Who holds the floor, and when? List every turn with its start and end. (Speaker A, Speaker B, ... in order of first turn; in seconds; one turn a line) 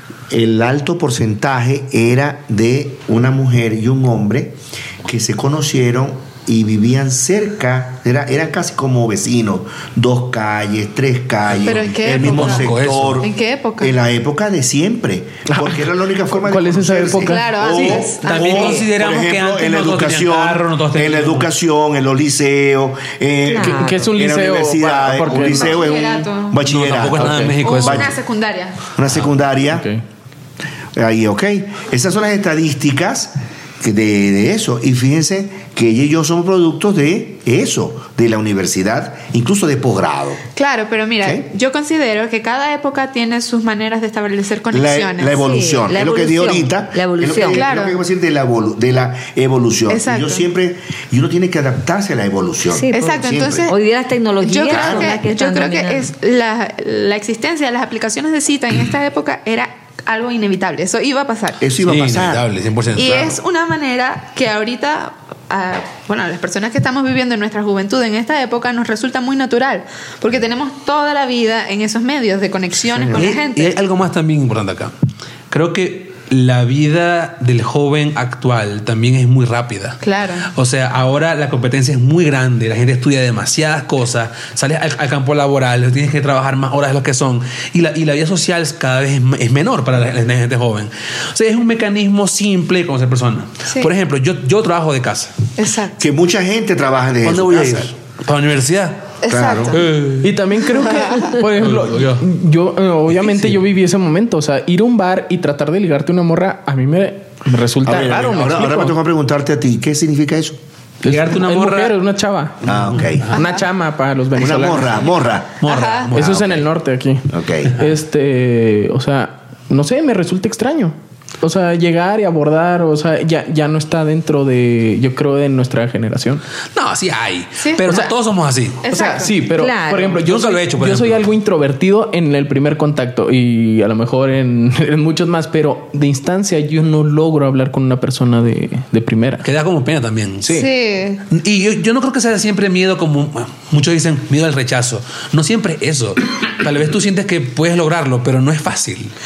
Speaker A: 0.3-28.1
Speaker B: 11.5-13.3
Speaker C: 11.6-13.9
Speaker D: 15.5-17.5
Speaker C: 17.2-18.8
Speaker B: 17.6-21.5
Speaker E: 18.2-18.6
Speaker E: 23.4-24.1
Speaker D: 23.6-25.7
Speaker C: 25.4-26.6
Speaker B: 26.6-28.1
Speaker D: 27.1-27.6
Speaker C: 27.6-28.8
Speaker A: 28.9-29.9
Speaker D: 29.7-30.0
Speaker A: 30.9-40.4
Speaker C: 40.5-45.4
Speaker A: 41.2-41.5
Speaker A: 44.7-53.7
Speaker E: 45.4-47.6
Speaker C: 47.5-48.0
Speaker C: 49.9-50.4
Speaker E: 52.7-56.1
Speaker C: 52.9-53.7
Speaker C: 54.4-61.6
Speaker A: 54.7-55.2
Speaker A: 61.6-62.5
Speaker B: 61.8-63.3
Speaker C: 63.0-73.8
Speaker A: 63.0-63.4
Speaker A: 72.8-73.3
Speaker B: 73.1-74.9
Speaker B: 75.5-95.3
Speaker C: 80.0-80.5
Speaker C: 95.6-96.0
Speaker A: 96.0-97.9
Speaker B: 97.2-99.2
Speaker C: 99.2-99.8
Speaker A: 99.3-99.8
Speaker B: 99.7-100.4
Speaker D: 100.2-109.0
Speaker B: 101.5-102.2
Speaker A: 107.8-110.6
Speaker D: 111.0-112.7
Speaker B: 111.0-111.9
Speaker A: 112.6-113.3
Speaker B: 112.7-113.3
Speaker D: 113.3-115.0
Speaker A: 114.3-115.6
Speaker B: 115.6-116.7
Speaker C: 115.6-116.2
Speaker D: 116.1-126.4
Speaker A: 117.3-117.7
Speaker B: 126.7-128.8
Speaker C: 127.6-128.1
Speaker C: 128.8-129.3
Speaker D: 128.9-139.4
Speaker E: 129.5-130.2
Speaker B: 130.2-131.2
Speaker B: 139.4-140.7
Speaker C: 140.5-141.2
Speaker B: 141.3-149.1